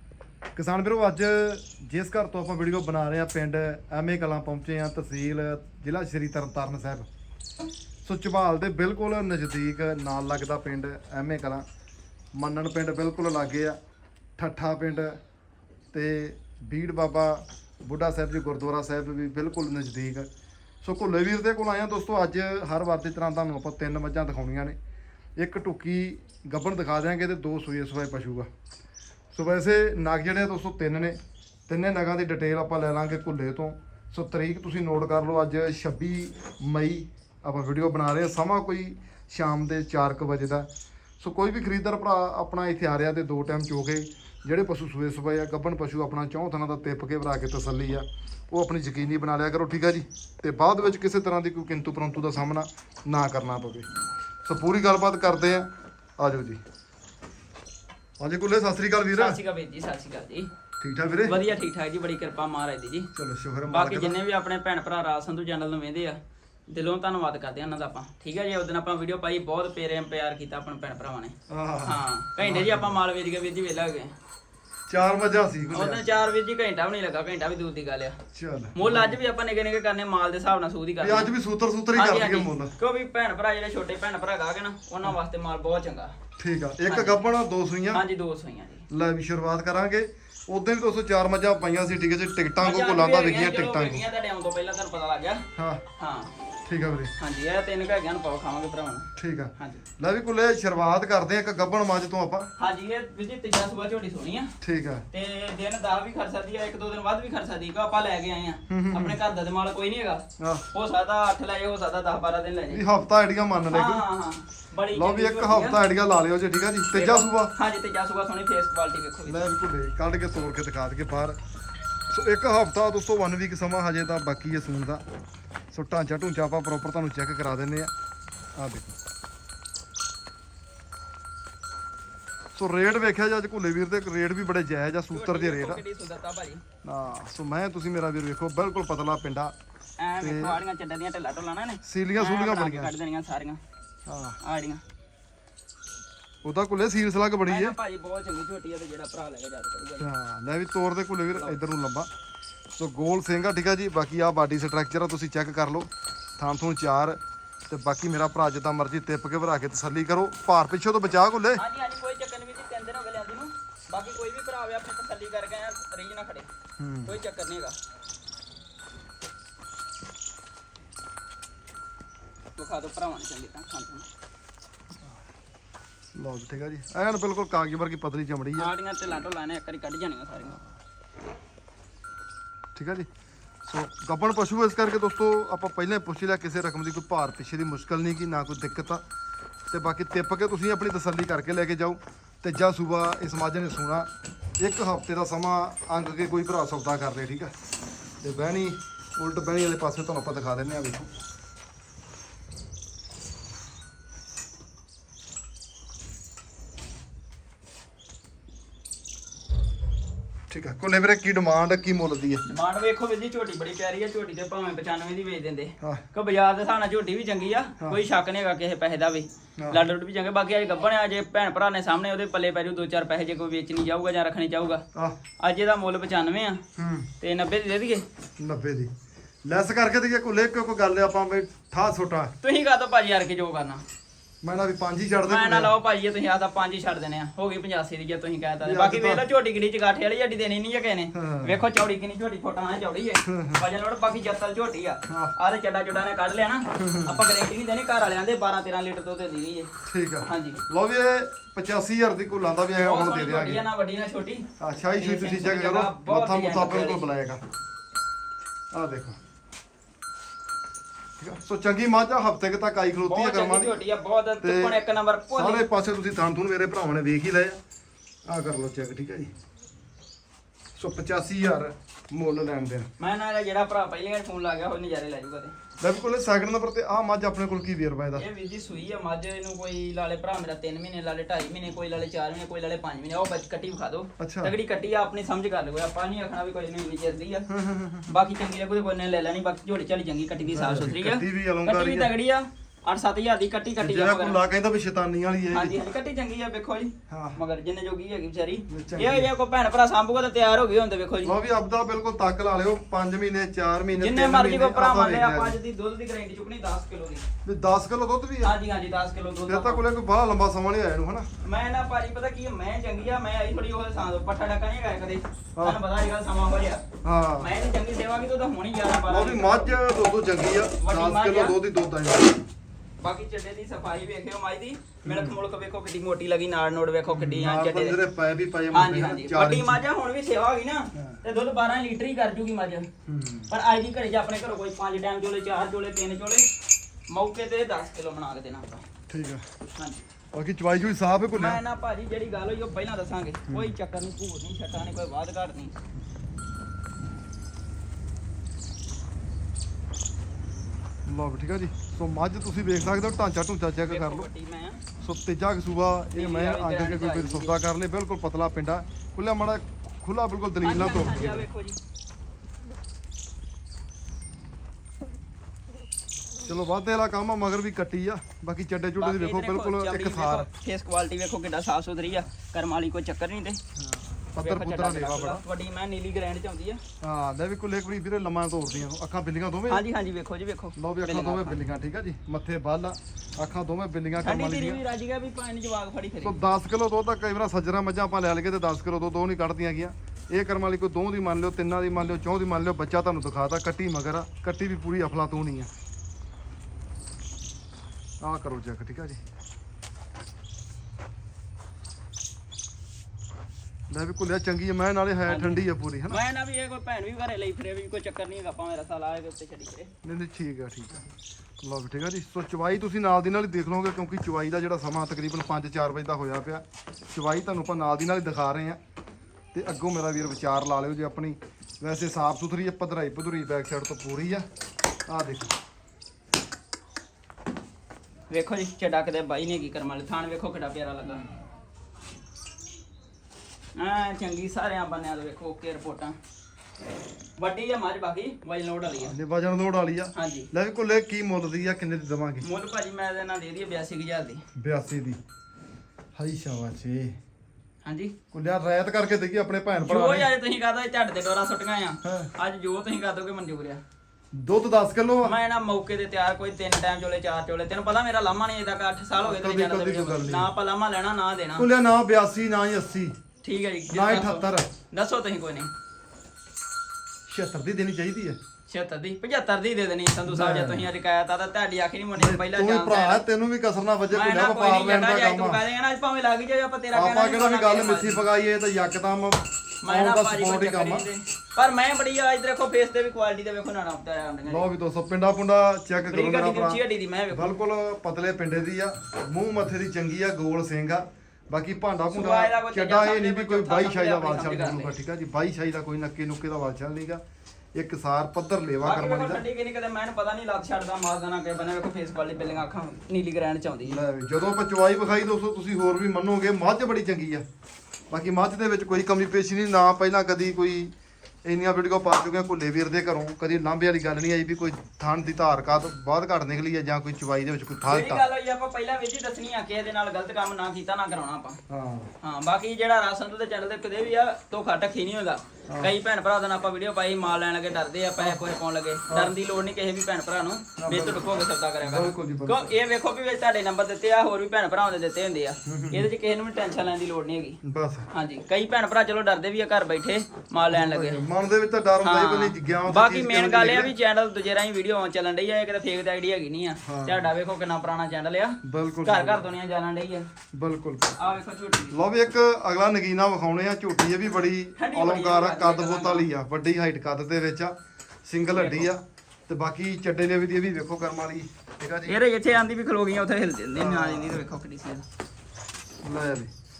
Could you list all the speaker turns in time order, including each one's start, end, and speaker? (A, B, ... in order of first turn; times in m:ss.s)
0:00.6-0:07.1 A
0:08.0-0:11.6 A
0:12.4-0:13.8 A
0:14.4-0:15.2 A
0:15.9-0:20.3 A
0:20.8-0:24.8 A
0:25.4-0:28.5 A
0:29.3-0:31.2 A
0:31.7-0:40.7 A
0:41.2-0:53.9 A
0:54.4-0:55.7 A
0:56.2-0:56.6 A
0:58.2-0:59.4 A
0:59.1-1:00.5 B
1:00.8-1:01.4 A
1:01.2-1:03.1 B
1:03.2-1:04.2 A
1:03.7-1:06.2 B
1:06.7-1:11.3 B
1:11.5-1:13.0 A
1:11.8-1:14.1 B
1:14.9-1:16.0 A
1:15.7-1:18.2 B
1:18.4-1:19.2 A
1:18.8-1:21.3 B
1:21.0-1:22.7 A
1:21.9-1:26.1 B
1:26.4-1:28.0 A
1:26.9-1:27.2 B
1:27.9-1:28.9 B
1:28.9-1:34.1 A
1:32.6-1:35.4 B
1:35.6-1:35.8 A
1:36.0-1:36.3 B
1:36.7-1:37.1 A
1:37.2-1:39.8 B
1:39.2-1:42.5 A
1:42.6-1:44.5 B
1:44.6-1:45.1 A
1:45.1-1:52.8 B
1:48.7-1:49.2 A
1:50.4-1:50.6 A
1:52.7-1:54.0 A
1:53.7-1:55.8 B
1:54.9-1:57.5 A
1:56.9-1:59.5 B
1:59.3-2:01.4 A
2:02.1-2:05.0 A
2:05.7-2:07.9 A
2:08.6-2:09.0 A
2:12.6-2:15.8 A
2:15.1-2:16.6 B
2:16.8-2:19.5 A
2:20.0-2:23.6 B
2:20.2-2:20.6 A
2:21.8-2:22.9 A
2:24.1-2:24.4 A
2:24.4-2:24.8 B
2:26.4-2:27.8 A
2:27.5-2:30.1 B
2:30.0-2:32.1 A
2:31.3-2:31.6 B
2:32.8-2:41.6 A
2:41.6-2:46.5 B
2:46.8-2:47.2 A
2:47.1-2:47.8 B
2:52.6-2:54.1 B
2:56.2-2:58.7 A
2:58.6-3:00.6 B
3:02.8-3:03.1 A
3:03.7-3:09.0 A
3:09.7-3:14.1 A
3:14.6-3:17.5 A
3:18.2-3:21.1 A
3:30.5-3:32.4 A
3:32.5-3:44.8 B
3:39.6-3:39.8 A
3:45.4-3:46.6 B
3:46.8-3:47.1 A
3:47.2-3:48.0 B
3:48.4-3:48.9 A
3:49.4-3:52.4 A
3:52.4-3:53.8 B
3:54.4-3:55.7 A
3:55.2-4:09.7 B
3:58.6-3:59.2 A
4:01.1-4:01.6 A
4:03.3-4:03.6 A
4:05.1-4:05.3 A
4:06.8-4:07.2 A
4:09.8-4:13.6 A
4:10.3-4:10.6 B
4:12.8-4:17.0 B
4:14.6-4:17.4 A
4:18.7-4:19.2 A
4:21.2-4:23.8 A
4:23.1-4:25.7 B
4:24.4-4:24.8 A
4:25.3-4:27.6 A
4:28.3-4:29.3 A
4:30.8-4:32.9 A
4:33.0-4:35.5 B
4:35.8-4:38.2 A
4:38.2-4:47.5 B
4:44.2-4:44.5 A
4:47.5-4:48.1 A
4:48.1-4:54.4 B
4:50.5-4:52.1 A
4:53.8-4:55.8 A
4:55.5-5:01.4 B
4:57.1-4:57.4 A
4:58.7-4:59.3 A
5:01.2-5:05.6 A
5:04.0-5:07.2 B
5:07.4-5:08.6 A
5:08.4-5:09.8 B
5:09.5-5:11.3 A
5:11.4-5:16.8 B
5:17.0-5:17.5 A
5:17.4-5:19.8 B
5:19.1-5:22.5 A
5:20.8-5:21.6 B
5:23.0-5:28.0 B
5:25.0-5:25.4 A
5:27.1-5:29.8 A
5:28.7-5:32.9 B
5:31.0-5:31.2 A
5:33.1-5:33.5 A
5:33.5-5:36.5 B
5:37.1-5:38.8 B
5:39.1-5:39.4 A
5:39.8-5:40.0 B
5:40.3-5:41.6 A
5:41.3-5:45.7 B
5:43.5-5:43.7 A
5:51.1-5:54.3 A
5:53.8-5:54.8 B
5:55.0-6:01.5 A
5:56.1-5:57.6 B
6:00.6-6:01.8 B
6:06.4-6:10.5 A
6:09.0-6:13.6 B
6:13.8-6:15.4 A
6:14.4-6:16.8 B
6:17.0-6:19.8 A
6:19.7-6:21.6 B
6:20.8-6:24.8 A
6:24.2-6:26.4 B
6:26.2-6:35.7 A
6:38.2-6:39.2 A
6:43.9-6:46.2 A
6:45.3-6:49.9 B
6:50.0-6:51.0 A
6:51.6-6:58.8 A
6:59.5-7:04.4 A
7:05.1-7:05.5 A
7:08.3-7:11.2 B
7:13.8-7:16.2 B
7:17.4-7:19.2 B
7:19.0-7:22.5 A
7:20.2-7:20.5 B
7:22.4-7:24.4 B
7:24.6-7:25.2 A
7:26.2-7:27.2 A
7:27.8-7:28.2 B
7:28.3-7:30.3 A
7:29.8-7:33.8 B
7:32.0-7:32.3 A
7:34.3-7:35.4 A
7:35.2-7:41.7 B
7:39.2-7:40.5 A
7:41.6-7:43.1 A
7:43.4-7:45.7 B
7:43.9-7:44.7 A
7:47.3-7:48.4 A
7:48.7-7:53.2 B
7:50.3-7:50.9 A
7:52.2-7:55.6 A
7:54.1-7:58.2 B
7:56.9-8:01.1 A
7:59.8-8:04.7 B
8:04.5-8:17.2 A
8:06.1-8:07.6 B
8:12.1-8:15.0 B
8:17.8-8:19.4 A
8:18.8-8:24.0 B
8:23.8-8:27.4 A
8:28.1-8:30.9 A
8:31.4-8:38.2 A
8:37.8-8:41.6 B
8:41.7-8:42.1 A
8:42.2-8:57.6 B
8:49.1-8:49.3 A
8:50.8-8:51.2 A
8:51.8-8:52.7 A
8:55.7-8:56.1 A
8:57.6-8:58.1 A
8:58.1-9:01.2 B
9:00.7-9:03.9 A
9:02.0-9:10.3 B
9:06.8-9:07.3 A
9:08.6-9:09.5 A
9:10.5-9:11.2 A
9:11.2-9:12.0 B
9:11.9-9:22.2 A
9:14.8-9:16.3 B
9:18.5-9:18.9 B
9:22.1-9:25.0 B
9:23.7-9:24.4 A
9:26.0-9:26.5 A